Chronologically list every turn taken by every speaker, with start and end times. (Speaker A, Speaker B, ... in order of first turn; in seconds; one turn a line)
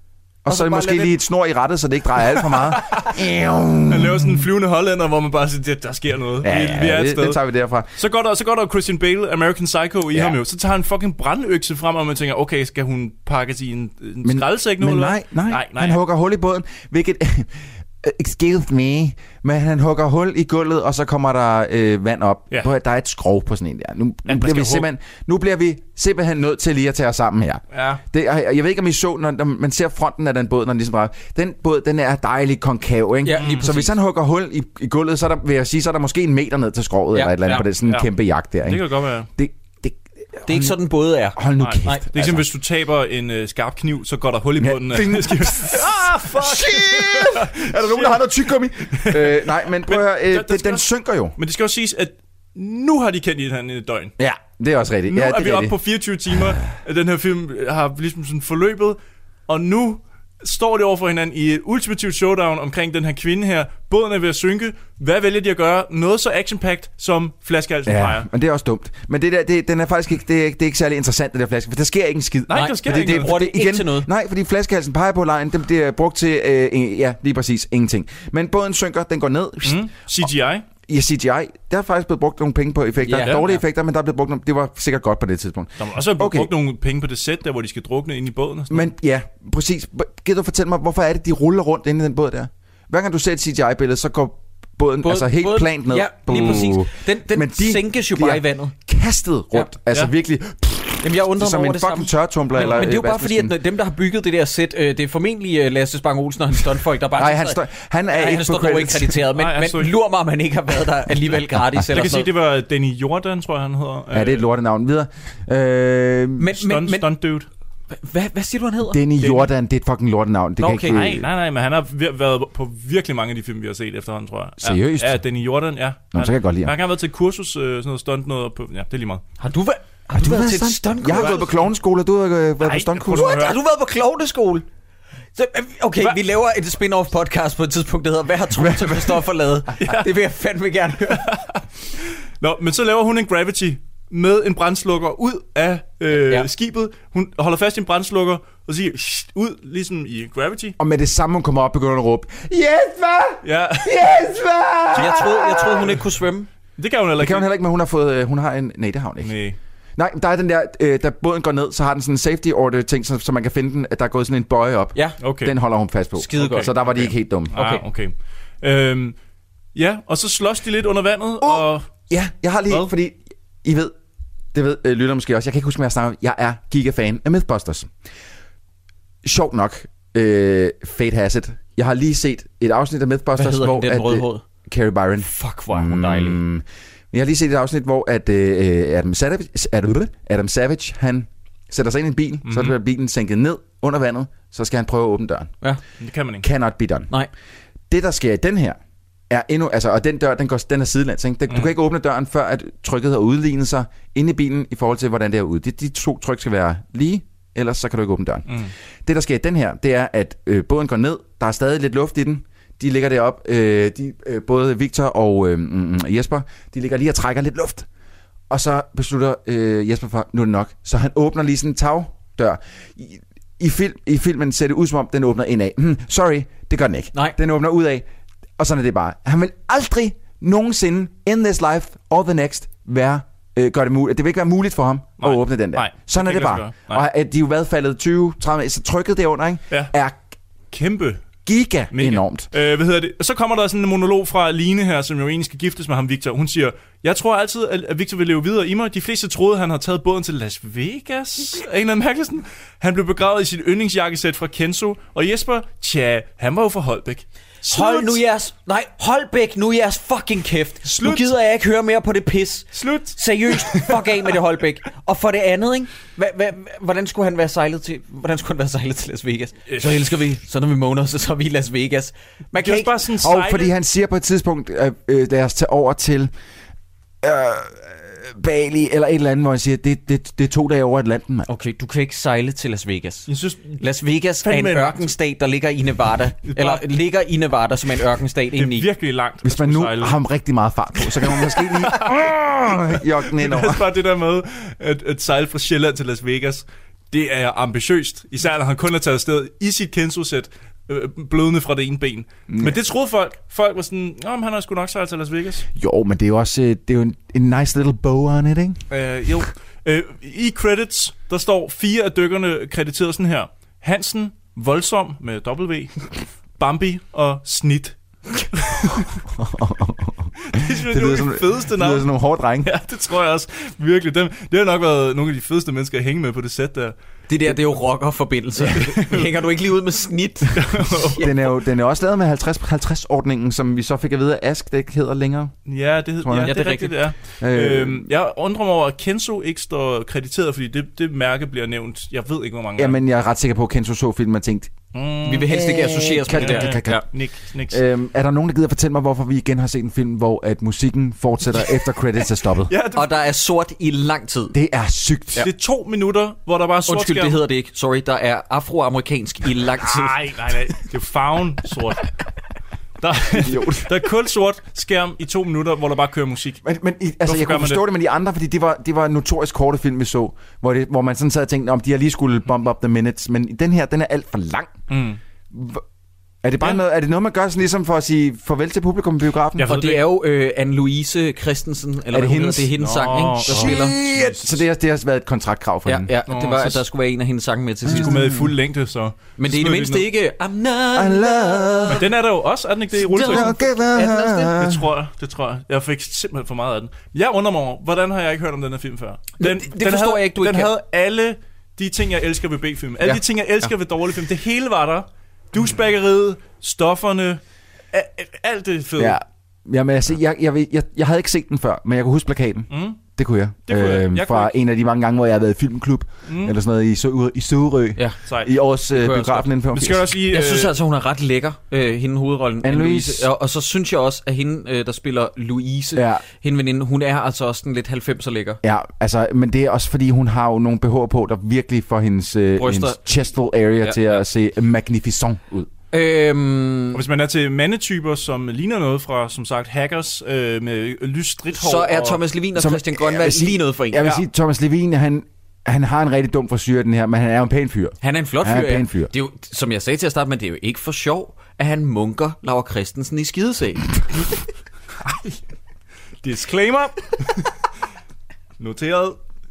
Speaker A: 0.4-4.5
Speaker B: 0.5-1.1
Speaker C: 3.9-7.4
Speaker A: 6.4-7.9
Speaker C: 7.9-16.0
Speaker A: 10.1-10.3
Speaker A: 14.2-40.8
Speaker C: 24.3-24.9
Speaker C: 27.7-28.0
Speaker B: 33.2-33.9
Speaker C: 33.4-33.7
Speaker B: 37.1-37.6
Speaker C: 37.5-38.1
Speaker C: 38.6-39.3
Speaker B: 40.5-42.0
Speaker A: 41.3-42.4
Speaker C: 41.6-54.1
Speaker A: 44.6-51.4
Speaker A: 54.2-55.8
Speaker C: 55.1-68.3
Speaker A: 67.8-79.9
Speaker C: 72.5-73.4
Speaker B: 72.5-74.1
Speaker C: 79.6-80.6
Speaker A: 80.9-86.5
Speaker B: 83.0-83.6
Speaker C: 85.8-88.9
Speaker A: 88.7-103.5
Speaker B: 95.0-98.7
Speaker C: 96.3-96.6
Speaker B: 101.0-112.3
Speaker C: 102.6-102.8
Speaker A: 107.2-109.2
Speaker C: 109.3-109.9
Speaker C: 111.9-114.4
Speaker A: 114.1-116.5
Speaker B: 116.4-117.1
Speaker C: 116.5-117.5
Speaker B: 118.0-119.0
Speaker A: 118.9-121.3
Speaker C: 119.2-119.5
Speaker B: 120.6-121.0
Speaker C: 120.9-129.2
Speaker A: 124.6-125.2
Speaker A: 126.1-126.7
Speaker B: 129.4-131.4
Speaker A: 130.1-133.4
Speaker C: 131.0-131.5
Speaker C: 132.6-133.6
Speaker B: 133.1-134.6
Speaker B: 135.4-141.2
Speaker A: 138.6-139.2
Speaker C: 139.8-140.1
Speaker C: 141.1-141.6
Speaker C: 142.4-150.8
Speaker B: 146.1-146.5
Speaker A: 150.8-156.0
Speaker C: 153.4-154.2
Speaker C: 154.9-156.0
Speaker B: 154.9-156.5
Speaker C: 156.8-157.5
Speaker A: 157.2-159.3
Speaker C: 159.2-159.6
Speaker A: 160.0-167.5
Speaker C: 165.2-165.5
Speaker B: 166.2-166.8
Speaker C: 166.4-169.2
Speaker B: 167.5-167.8
Speaker C: 169.7-171.9
Speaker A: 171.4-173.9
Speaker A: 174.5-177.9
Speaker A: 179.2-195.5
Speaker B: 183.3-184.4
Speaker B: 185.2-186.4
Speaker C: 192.4-192.7
Speaker C: 196.0-196.4
Speaker A: 196.4-197.1
Speaker A: 197.9-198.8
Speaker A: 199.3-217.9
Speaker A: 218.5-228.1
Speaker A: 228.6-240.2
Speaker C: 235.2-237.0
Speaker C: 239.7-239.9
Speaker C: 240.7-241.3
Speaker A: 241.4-242.5
Speaker C: 241.9-258.2
Speaker B: 257.7-272.9
Speaker C: 260.9-261.3
Speaker C: 262.7-263.9
Speaker C: 269.7-270.1
Speaker C: 272.6-273.7
Speaker A: 273.2-276.3
Speaker A: 277.2-281.5
Speaker B: 281.5-283.3
Speaker C: 283.3-283.8
Speaker B: 283.8-288.9
Speaker C: 284.4-285.1
Speaker C: 286.4-286.9
Speaker C: 288.5-290.2
Speaker A: 289.4-293.8
Speaker C: 291.0-305.6
Speaker A: 302.5-302.8
Speaker A: 305.7-308.8
Speaker C: 308.9-319.2
Speaker A: 319.3-320.3
Speaker C: 320.4-326.9
Speaker A: 320.8-322.7
Speaker B: 327.3-331.3
Speaker C: 328.7-329.3
Speaker C: 330.5-331.3
Speaker A: 331.1-335.6
Speaker C: 335.6-343.0
Speaker A: 336.2-336.6
Speaker B: 336.4-336.9
Speaker A: 337.4-338.1
Speaker A: 342.8-344.7
Speaker C: 344.9-347.8
Speaker B: 345.2-347.0
Speaker A: 345.5-352.7
Speaker C: 352.7-353.1
Speaker B: 352.9-354.6
Speaker A: 354.5-355.5
Speaker C: 355.4-357.4
Speaker B: 356.9-360.2
Speaker C: 359.8-362.1
Speaker C: 363.0-366.6
Speaker A: 363.3-363.9
Speaker A: 366.6-374.8
Speaker C: 367.2-367.8
Speaker C: 374.9-375.2
Speaker A: 375.5-375.8
Speaker A: 376.4-379.7
Speaker C: 379.6-380.0
Speaker B: 379.7-383.9
Speaker A: 382.1-382.7
Speaker C: 382.8-384.6
Speaker A: 383.4-386.1
Speaker B: 385.9-388.1
Speaker C: 386.3-386.8
Speaker C: 387.9-390.1
Speaker A: 387.9-388.5
Speaker B: 389.4-392.0
Speaker A: 390.9-392.0
Speaker C: 391.9-393.6
Speaker B: 393.1-394.5
Speaker A: 393.1-394.8
Speaker C: 394.6-407.4
Speaker B: 399.4-400.7
Speaker C: 407.9-409.2
Speaker A: 409.0-420.0
Speaker C: 412.7-413.0
Speaker C: 413.6-414.6
Speaker C: 416.3-416.6
Speaker C: 418.3-418.5
Speaker B: 418.9-419.5
Speaker C: 419.7-420.7
Speaker B: 420.3-428.6
Speaker A: 422.6-423.3
Speaker A: 425.9-426.2
Speaker A: 428.6-435.7
Speaker B: 432.6-433.0
Speaker B: 435.9-437.0
Speaker C: 436.9-442.2
Speaker B: 441.5-444.1
Speaker A: 442.5-449.1
Speaker B: 448.0-454.0
Speaker C: 456.2-457.5
Speaker C: 458.6-459.2